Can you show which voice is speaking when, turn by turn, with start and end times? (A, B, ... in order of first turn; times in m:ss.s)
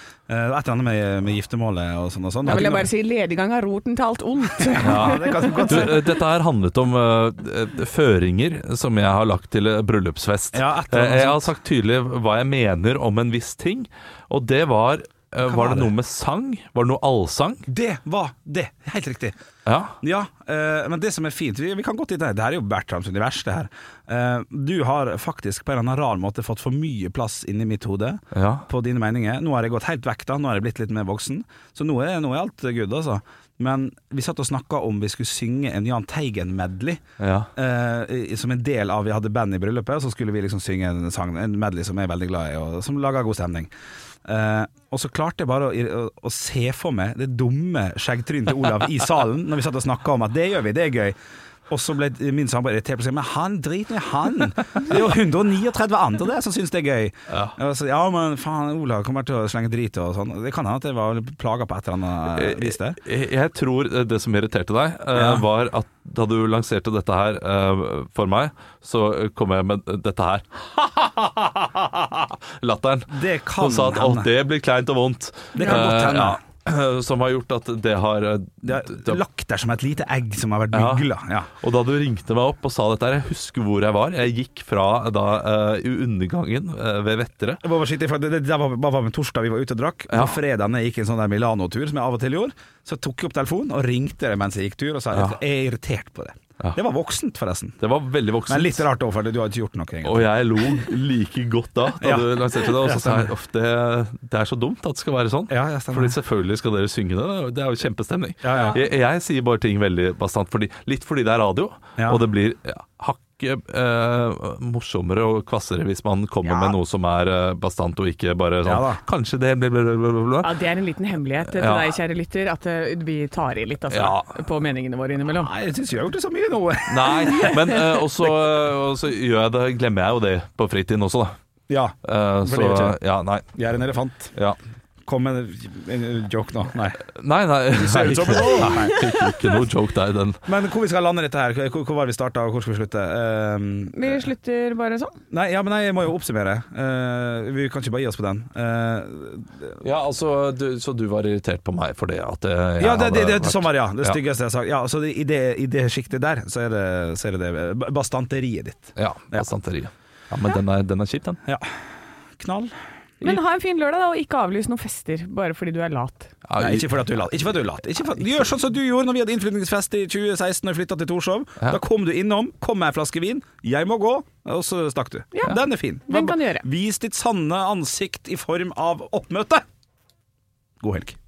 0:00.3-0:02.9 A
0:02.4-0:05.9 B
0:04.6-0:06.1 A
0:04.8-0:17.6 C
0:10.5-0:11.5 A
0:15.4-0:15.9 A
0:17.7-0:19.4 A
0:19.7-0:20.0 C
0:20.0-0:37.0 A
0:28.3-0:28.7 C
0:37.2-0:37.5 C
0:37.6-0:43.7 A
0:44.2-0:51.2 A
0:51.7-1:03.0 A
0:57.3-0:57.6 C
1:02.4-1:19.2 C
1:05.2-1:05.5 A
1:13.1-1:14.3 A
1:15.5-1:16.4 A
1:18.6-1:21.5 A
1:20.7-1:21.1 C
1:21.6-1:27.6 C
1:27.6-1:37.8 A
1:30.1-1:30.4 C
1:35.1-1:35.4 C
1:37.8-1:38.8 C
1:38.5-1:40.7 A
1:40.0-2:00.5 C
1:42.0-1:43.3 A
1:45.5-1:46.2 A
1:48.4-1:48.8 A
1:52.0-1:52.2 A
1:56.4-1:56.8 A
1:58.6-1:59.0 A
2:00.4-2:05.5 B
2:01.4-2:02.0 C
2:03.9-2:04.3 C
2:05.4-2:07.6 A
2:06.9-2:11.4 C
2:11.7-2:13.0 A
2:12.0-2:13.5 C
2:13.5-2:14.3 A
2:15.1-2:17.0 A
2:17.1-2:20.4 C
2:17.7-2:19.0 A
2:18.3-2:19.4 B
2:20.5-2:24.2 A
2:23.9-2:25.1 B
2:25.3-2:29.8 A
2:29.8-2:34.2 C
2:32.8-2:39.5 A
2:39.0-2:41.4 C
2:42.4-2:42.7 A
2:43.2-2:46.3 B
2:46.4-2:46.9 C
2:46.6-2:59.6 A
2:55.3-2:56.6 B
3:00.8-3:01.2 A